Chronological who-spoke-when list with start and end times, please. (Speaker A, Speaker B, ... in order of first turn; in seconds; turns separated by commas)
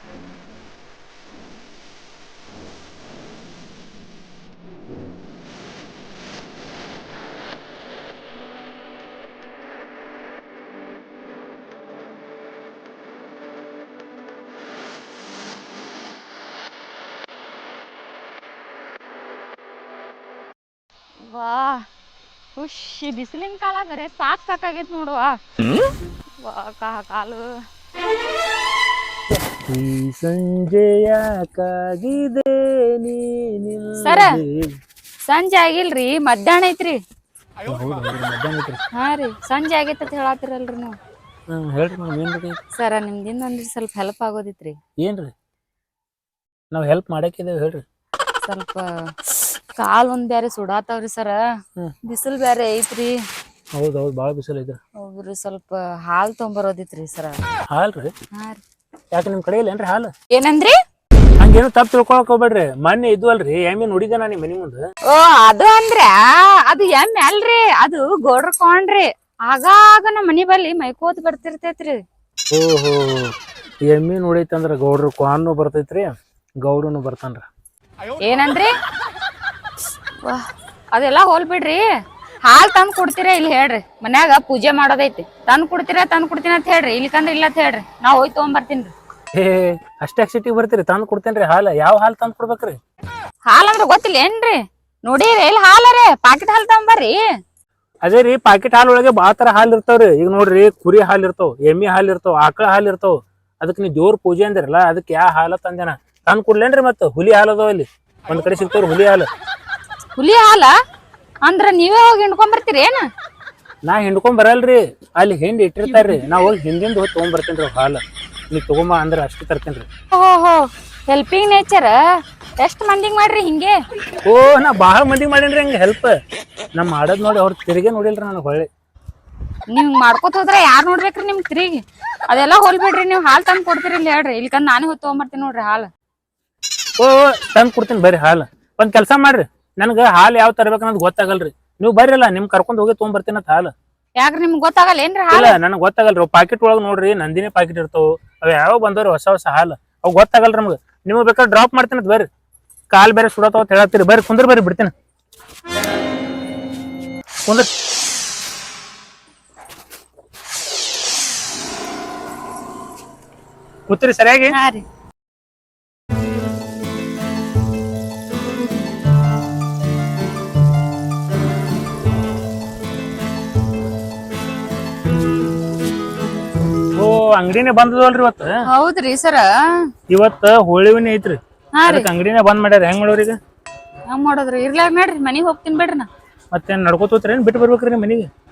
Speaker A: 21.2-21.9, Speaker A: 22.6-25.4, Speaker A: 26.4-27.5, Speaker B: 29.6-34.7, Speaker A: 34.0-34.3, Speaker A: 35.3-37.0, Speaker B: 37.6-38.8, Speaker A: 39.0-41.0, Speaker B: 41.5-42.6, Speaker A: 42.8-44.8, Speaker B: 45.0-45.3, Speaker B: 46.7-47.8, Speaker A: 48.4-49.1, Speaker A: 49.8-51.4, Speaker A: 52.0-53.2, Speaker B: 53.8-54.8, Speaker A: 55.0-57.4, Speaker B: 57.7-58.1, Speaker A: 58.4-58.6, Speaker B: 59.1-60.1, Speaker A: 60.3-60.8, Speaker B: 61.4-64.8, Speaker A: 65.1-72.0, Speaker B: 72.5-73.3, Speaker B: 73.9-76.1, Speaker B: 76.6-77.5, Speaker A: 78.2-78.7, Speaker A: 80.2-81.8, Speaker A: 82.4-88.9, Speaker B: 89.3-92.8, Speaker A: 93.5-97.2, Speaker B: 98.0-109.3, Speaker A: 110.2-110.7, Speaker A: 111.5-113.1, Speaker B: 113.9-119.9, Speaker A: 115.9-116.2, Speaker A: 120.1-122.0, Speaker A: 122.6-123.8, Speaker B: 124.2-126.2, Speaker B: 126.8-128.7, Speaker A: 129.7-135.9, Speaker B: 137.0-143.7, Speaker A: 144.2-145.5, Speaker B: 145.3-152.3, Speaker B: 152.9-154.9, Speaker B: 163.9-164.6, Speaker A: 164.5-164.8, Speaker B: 177.0-178.5, Speaker A: 178.7-179.8, Speaker B: 180.1-183.4, Speaker A: 181.8-182.1, Speaker A: 184.1-186.1, Speaker B: 186.5-188.3